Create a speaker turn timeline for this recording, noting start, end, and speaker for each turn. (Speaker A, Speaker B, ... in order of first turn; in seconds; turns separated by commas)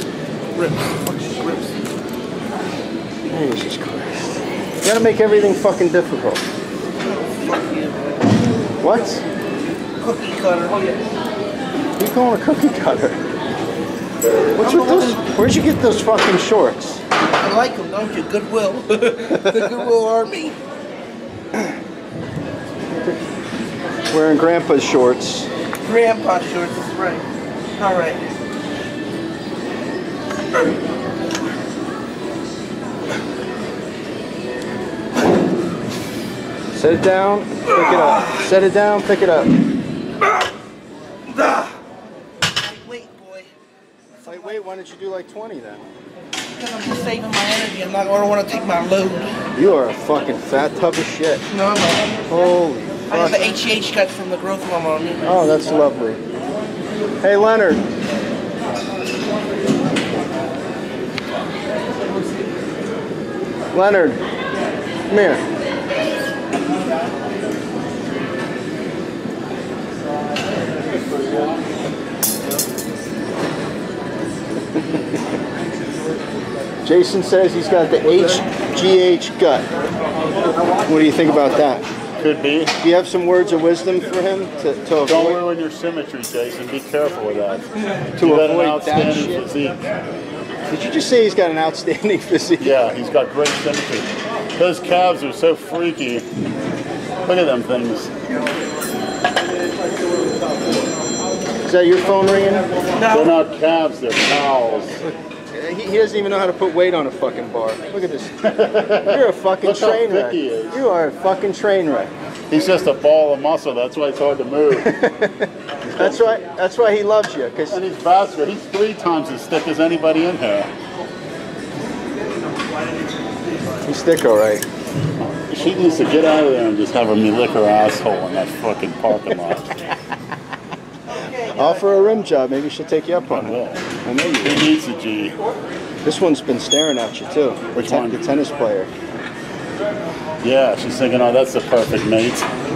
Speaker A: 0.5-1.8, Speaker B: 3.3-6.4, Speaker A: 7.0-8.2, Speaker B: 8.8-9.2, Speaker A: 10.0-10.9, Speaker B: 12.0-13.2, Speaker B: 14.6-17.0, Speaker A: 14.6-15.1, Speaker A: 17.4-20.6, Speaker B: 24.1-25.5, Speaker A: 25.8-27.2, Speaker A: 27.8-28.2, Speaker B: 36.7-39.5, Speaker A: 38.0-38.4, Speaker A: 41.3-41.7, Speaker A: 42.6-43.5, Speaker A: 44.2-44.6, Speaker B: 44.2-45.9, Speaker A: 46.5-49.4, Speaker B: 49.5-51.5, Speaker A: 51.5-52.2, Speaker B: 52.3-53.4, Speaker A: 53.1-55.2, Speaker B: 55.2-56.2, Speaker B: 57.2-57.8, Speaker B: 63.7-64.2, Speaker B: 65.1-65.4, Speaker B: 76.8-79.7, Speaker B: 80.8-81.9, Speaker C: 82.2-82.8, Speaker B: 82.8-85.4, Speaker C: 85.0-89.8, Speaker B: 88.1-89.5, Speaker B: 90.7-92.8, Speaker C: 92.6-96.3, Speaker C: 97.2-98.1, Speaker B: 101.6-102.7, Speaker A: 103.0-103.3, Speaker C: 103.1-105.0, Speaker B: 105.0-108.4, Speaker C: 108.4-110.8, Speaker B: 109.1-112.1, Speaker C: 112.5-114.9, Speaker B: 114.7-117.8, Speaker C: 115.9-116.3, Speaker C: 117.7-120.7, Speaker B: 123.8-124.7, Speaker C: 125.2-129.8, Speaker A: 131.1-131.8, Speaker B: 131.4-134.7, Speaker C: 133.3-133.8, Speaker C: 134.4-135.4, Speaker B: 136.0-138.9, Speaker C: 137.7-138.3, Speaker C: 140.4-142.5